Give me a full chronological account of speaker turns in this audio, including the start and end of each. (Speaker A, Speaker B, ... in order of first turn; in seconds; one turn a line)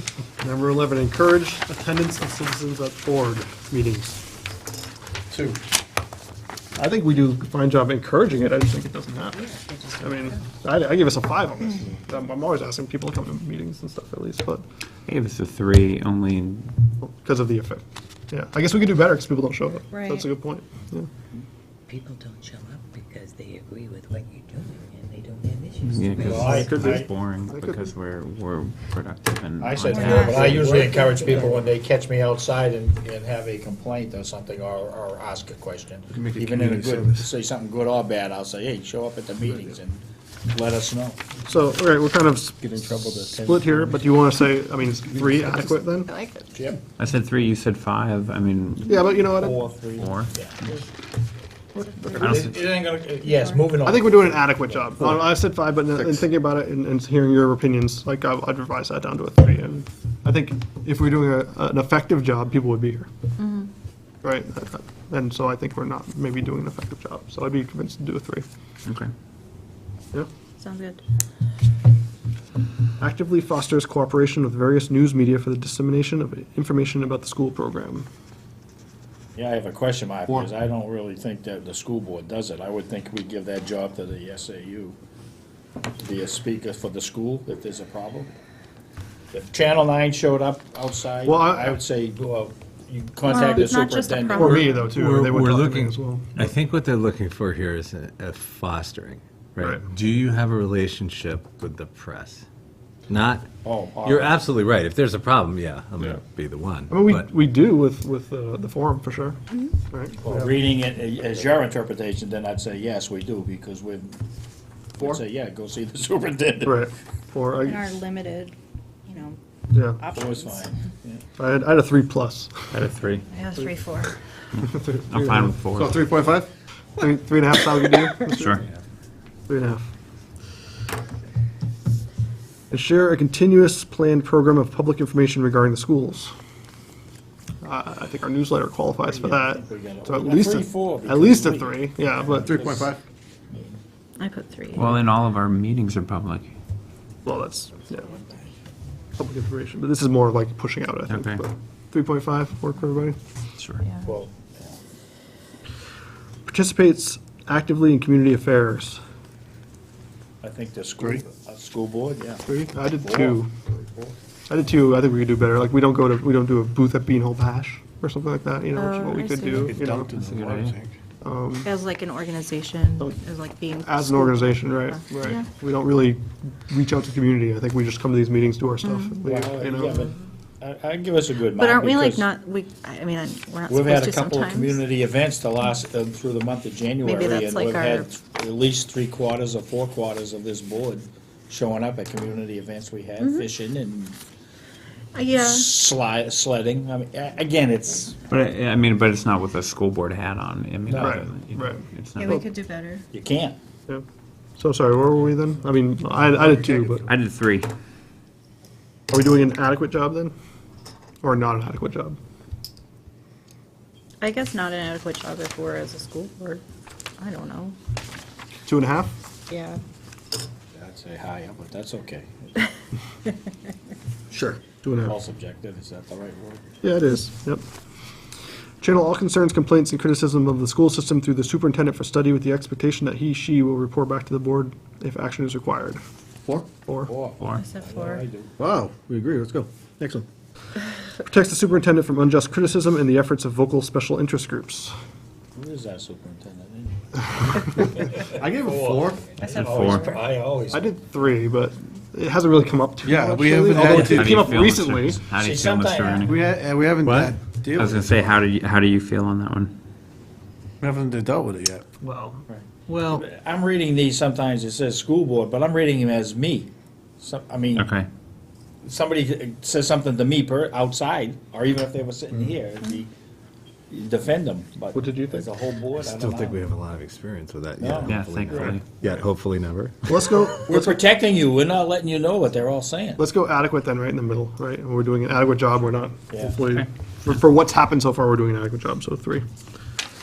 Speaker A: 0.4-4.2
Speaker B: 5.3-5.6
Speaker A: 6.8-14.6
Speaker C: 9.3-10.4
Speaker D: 15.1-16.7
Speaker A: 17.0-21.1
Speaker E: 19.9-20.3
Speaker C: 21.9-26.6
Speaker D: 25.8-30.7
Speaker F: 26.2-27.1
Speaker A: 26.4-27.9
Speaker F: 29.6-41.4
Speaker E: 29.8-31.3
Speaker C: 30.4-31.6
Speaker B: 36.1-37.2
Speaker A: 41.4-46.1
Speaker F: 42.6-44.0
Speaker E: 46.0-46.7
Speaker F: 46.5-46.8
Speaker D: 47.0-49.1
Speaker A: 48.9-49.7
Speaker F: 49.4-50.6
Speaker D: 49.9-50.3
Speaker A: 51.8-52.3
Speaker F: 52.1-55.1
Speaker D: 52.2-52.7
Speaker E: 53.2-53.7
Speaker A: 53.8-63.1
Speaker E: 63.4-63.7
Speaker A: 64.2-68.5
Speaker D: 68.8-69.1
Speaker E: 70.6-71.0
Speaker A: 73.0-78.1
Speaker F: 79.3-85.0
Speaker F: 86.0-88.3
Speaker F: 89.3-94.9
Speaker A: 91.2-91.8
Speaker E: 93.2-95.0
Speaker A: 94.3-96.5
Speaker G: 94.9-102.4
Speaker G: 103.1-103.5
Speaker F: 103.6-104.5
Speaker G: 104.0-107.2
Speaker A: 106.9-109.4
Speaker A: 109.9-110.5
Speaker F: 110.1-114.2
Speaker F: 115.0-116.8
Speaker A: 116.6-117.9
Speaker E: 117.6-118.5
Speaker E: 119.0-119.4
Speaker A: 119.7-120.0
Speaker E: 120.0-120.7
Speaker F: 120.0-121.2
Speaker A: 121.4-122.6
Speaker D: 122.7-123.2
Speaker E: 123.3-124.2
Speaker D: 124.5-126.1
Speaker A: 124.7-125.5
Speaker B: 125.7-126.5
Speaker A: 127.0-128.6
Speaker D: 128.3-128.6
Speaker A: 129.5-129.8
Speaker A: 132.7-136.3
Speaker A: 137.6-142.6
Speaker F: 139.0-142.9
Speaker B: 142.3-143.0
Speaker F: 143.5-143.8
Speaker E: 144.2-145.0
Speaker D: 144.7-146.5
Speaker A: 147.2-148.1
Speaker F: 147.9-148.5
Speaker A: 149.2-153.2
Speaker D: 151.1-151.4
Speaker E: 153.8-154.1
Speaker F: 154.0-154.8
Speaker A: 156.4-159.0
Speaker F: 160.4-164.1
Speaker A: 162.5-163.5
Speaker A: 164.5-170.1
Speaker E: 168.7-169.8
Speaker B: 169.5-170.9
Speaker D: 170.2-170.8
Speaker A: 171.2-171.7
Speaker E: 171.6-175.5
Speaker A: 173.8-180.1
Speaker E: 178.8-179.2
Speaker F: 179.2-182.3
Speaker E: 181.4-184.8
Speaker F: 183.7-194.2
Speaker E: 187.0-188.1
Speaker E: 193.2-193.5
Speaker E: 195.1-195.8
Speaker F: 195.3-198.2
Speaker D: 198.3-202.4
Speaker F: 200.9-201.3
Speaker A: 201.0-202.4
Speaker E: 202.2-203.0
Speaker F: 203.1-203.6
Speaker A: 204.6-207.1
Speaker D: 207.1-207.7
Speaker A: 209.1-210.3
Speaker A: 211.2-212.2
Speaker E: 214.2-216.6
Speaker E: 217.2-217.8
Speaker A: 218.7-219.1
Speaker E: 219.5-219.8
Speaker F: 220.7-222.5
Speaker A: 224.3-225.1
Speaker F: 225.0-226.8
Speaker A: 226.8-227.6
Speaker A: 228.8-236.0
Speaker A: 236.8-237.1
Speaker F: 237.1-238.5
Speaker E: 237.5-238.2
Speaker B: 238.6-240.2
Speaker A: 241.2-244.9
Speaker F: 245.5-250.9
Speaker B: 248.3-249.4
Speaker E: 249.4-250.2
Speaker D: 249.4-250.1
Speaker A: 250.7-255.2
Speaker B: 253.0-254.5
Speaker D: 253.7-256.4
Speaker F: 255.4-256.4
Speaker B: 256.2-258.3
Speaker G: 257.0-257.3
Speaker D: 257.7-259.7
Speaker B: 260.8-261.8
Speaker A: 262.0-262.4
Speaker F: 262.5-267.9
Speaker B: 262.9-263.2
Speaker D: 267.7-268.1
Speaker F: 268.8-273.1
Speaker F: 273.9-276.6
Speaker A: 274.9-275.5
Speaker G: 276.0-279.9
Speaker F: 277.8-278.8
Speaker D: 278.1-278.8
Speaker A: 280.1-281.0
Speaker F: 280.7-283.2
Speaker A: 283.2-289.4
Speaker F: 286.3-286.6